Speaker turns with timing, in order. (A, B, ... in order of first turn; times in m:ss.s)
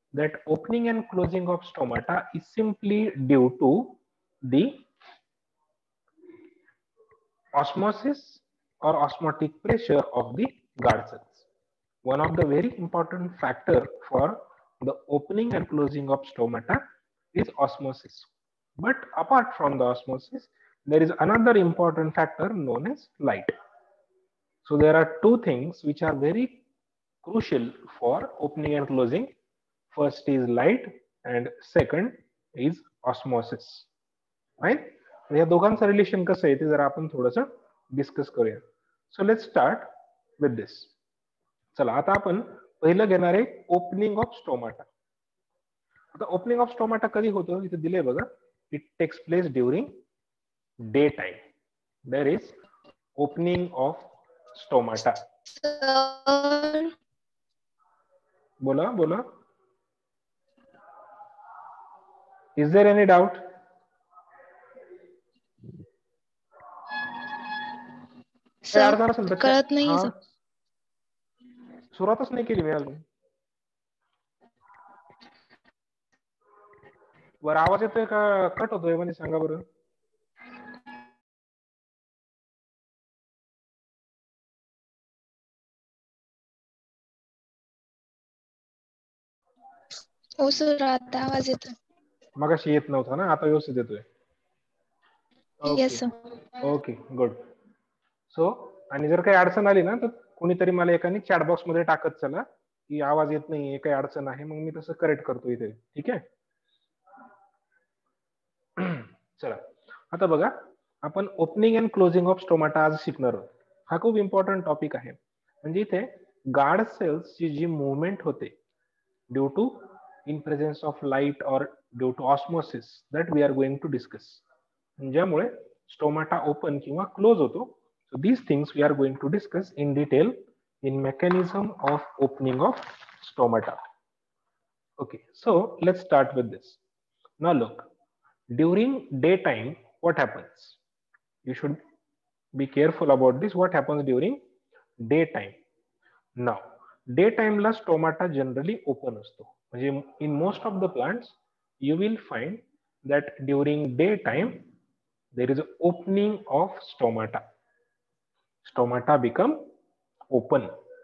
0:00.1-0:04.8 A
0:07.6-0:11.5 A
0:12.0-0:16.8 A
0:17.3-0:23.5 A
0:24.6-0:26.6 A
0:27.2-0:29.3 A
0:29.9-0:33.9 A
0:34.6-0:40.9 A
0:41.7-0:44.9 A
0:46.2-0:50.0 A
0:50.8-0:51.4 A
0:52.1-0:52.6 A
0:53.2-0:55.2 A
0:55.6-0:56.9 B
0:58.6-0:59.3 A
1:02.6-1:03.5 A
1:08.7-1:10.1 B
1:08.7-1:10.1 A
1:11.9-1:13.1 A
1:17.4-1:19.6 A
1:30.4-1:31.8 B
1:32.4-1:34.1 A
1:35.6-1:36.1 A
1:35.7-1:36.1 B
1:36.6-1:37.4 A
1:38.3-1:46.2 A
1:48.8-1:58.6 A
1:59.3-2:04.4 A
2:05.0-2:13.8 A
2:15.0-2:16.8 A
2:17.4-2:17.9 A
2:18.5-2:20.8 A
2:21.4-2:21.8 A
2:22.6-2:24.4 A
2:25.0-2:25.6 A
2:26.4-2:34.7 A
2:35.3-2:37.4 A
2:38.6-2:39.7 A
2:40.3-2:40.7 A